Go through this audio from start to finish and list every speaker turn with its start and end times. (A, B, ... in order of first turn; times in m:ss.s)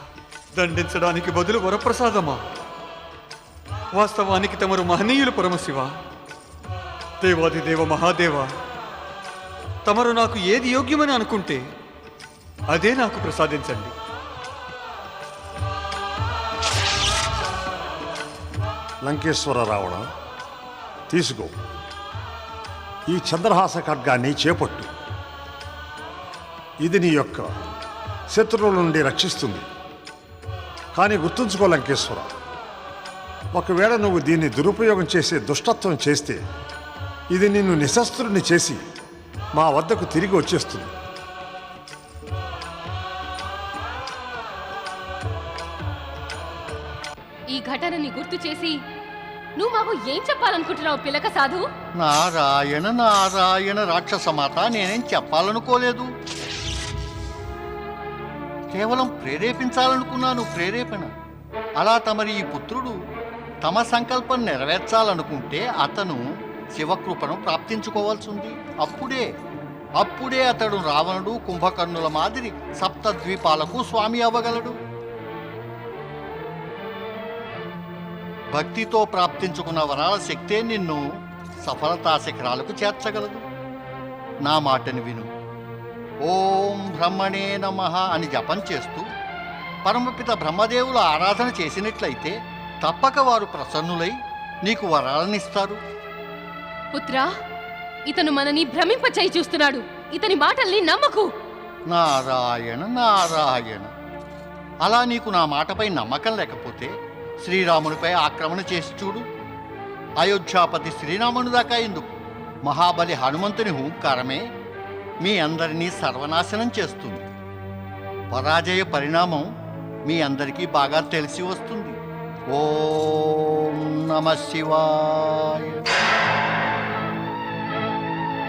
0:00.5-0:02.4 A
0:03.9-0:05.9 A
0:07.2-0:08.5 A
0:09.8-0:11.6 A
0:12.7-0:13.9 A
0:19.0-0:20.0 B
0:21.1-0:21.5 B
0:23.1-0:24.9 B
0:26.8-0:27.5 B
0:28.3-0:29.6 B
0:30.9-0:32.3 B
0:33.5-0:36.4 B
0:37.3-0:38.8 B
0:39.6-0:40.9 B
0:47.5-0:48.8 C
0:49.6-0:51.6 C
0:52.0-0:56.1 D
0:58.7-1:01.1 D
1:01.8-1:03.0 D
1:03.6-1:06.2 D
1:06.7-1:09.2 D
1:10.0-1:14.8 D
1:18.5-1:21.0 D
1:21.6-1:23.4 D
1:24.4-1:25.3 D
1:26.2-1:29.1 D
1:29.8-1:35.8 D
1:36.9-1:37.3 C
1:38.1-1:41.3 C
1:41.9-1:43.9 D
1:44.8-1:46.9 D
1:47.4-1:49.2 D
1:50.2-1:52.1 D
1:52.6-1:54.4 D
1:55.2-1:57.2 D
1:58.3-1:59.5 D
2:00.1-2:02.0 D
2:02.5-2:05.8 D